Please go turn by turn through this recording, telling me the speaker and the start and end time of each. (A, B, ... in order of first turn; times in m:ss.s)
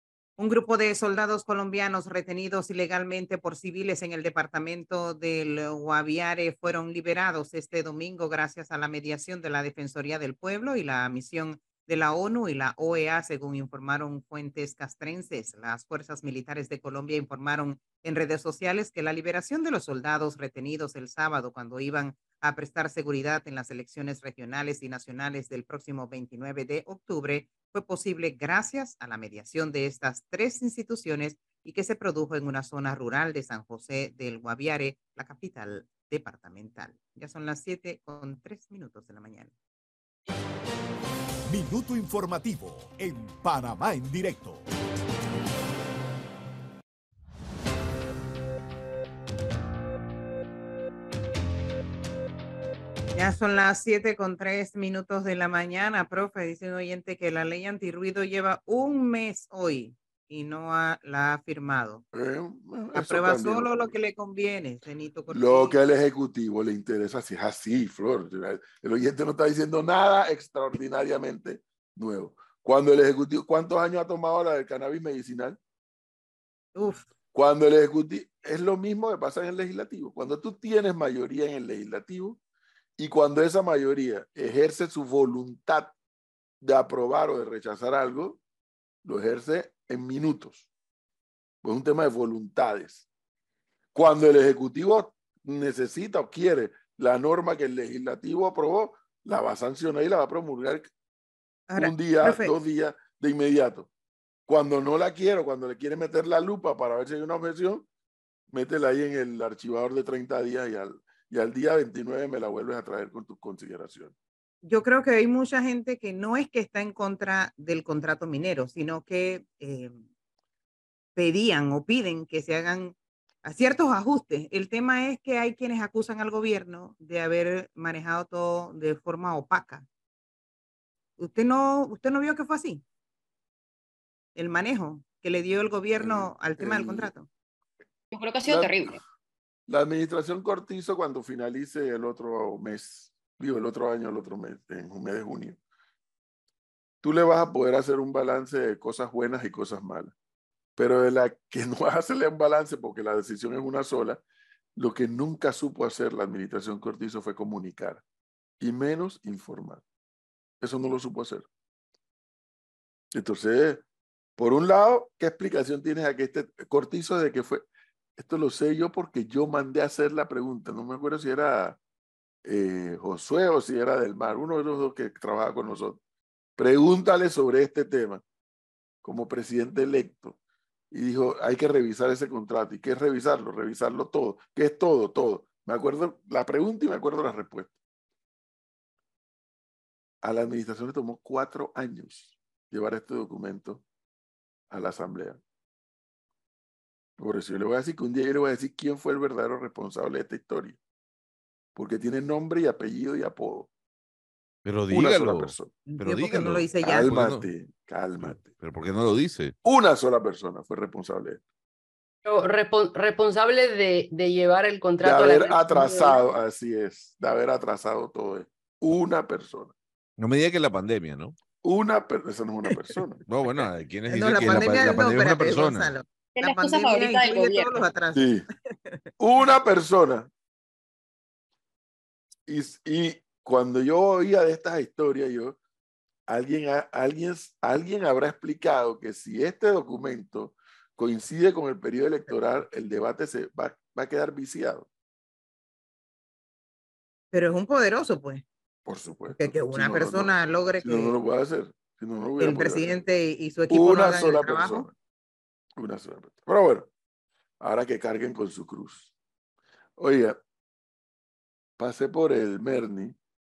0:00.4-0:39.5 A
0:41.5-0:44.6 B
0:53.2-1:02.0 A
1:02.1-1:03.9 C
1:02.9-1:05.8 A
1:05.3-1:15.6 C
1:16.8-1:17.0 A
1:17.3-1:22.4 C
1:23.0-1:25.9 C
1:26.6-1:28.4 C
1:29.0-1:30.7 C
1:31.6-1:33.0 C
1:33.9-1:40.9 C
1:41.7-1:42.5 A
1:41.8-1:43.9 C
1:44.5-1:47.9 C
1:48.5-1:54.1 C
1:54.6-2:00.0 A
2:01.2-2:09.9 A
2:11.2-2:12.8 A
2:14.4-2:17.3 A
2:16.0-2:17.1 C
2:18.1-2:19.0 D
2:18.4-2:19.0 C
2:19.7-2:25.6 C
2:27.0-2:30.1 C
2:30.8-2:34.2 C
2:34.8-2:38.0 C
2:38.6-2:39.8 C
2:40.6-2:41.5 C
2:43.1-2:43.8 C
2:44.4-2:47.6 C
2:48.2-2:51.8 C
2:52.4-2:56.0 C
2:56.6-2:58.2 C
2:59.0-3:00.4 C
3:00.9-3:07.8 C
3:10.2-3:13.8 C
3:14.7-3:15.4 C
3:17.2-3:20.8 C
3:21.8-3:23.7 C
3:24.6-3:27.5 E
3:24.9-3:25.7 C
3:25.9-3:27.1 A
3:26.8-3:28.5 C
3:28.2-3:29.5 E
3:29.6-3:31.4 C
3:32.2-3:36.2 F
3:35.0-3:39.7 C
3:40.2-3:41.4 E
3:41.6-3:43.2 C
3:43.3-3:45.9 E
3:44.1-3:49.0 A
3:44.5-3:44.9 C
3:46.4-3:47.8 D
3:48.1-3:48.4 C
3:49.2-3:50.3 C
3:52.5-3:55.6 C
3:56.3-4:04.9 C
4:07.3-4:08.4 A
4:08.9-4:12.9 C
4:09.4-4:11.1 A
4:12.4-4:14.9 A
4:13.7-4:14.9 C
4:15.8-4:16.9 C
4:17.6-4:19.1 C
4:20.0-4:20.4 C
4:21.8-4:23.2 C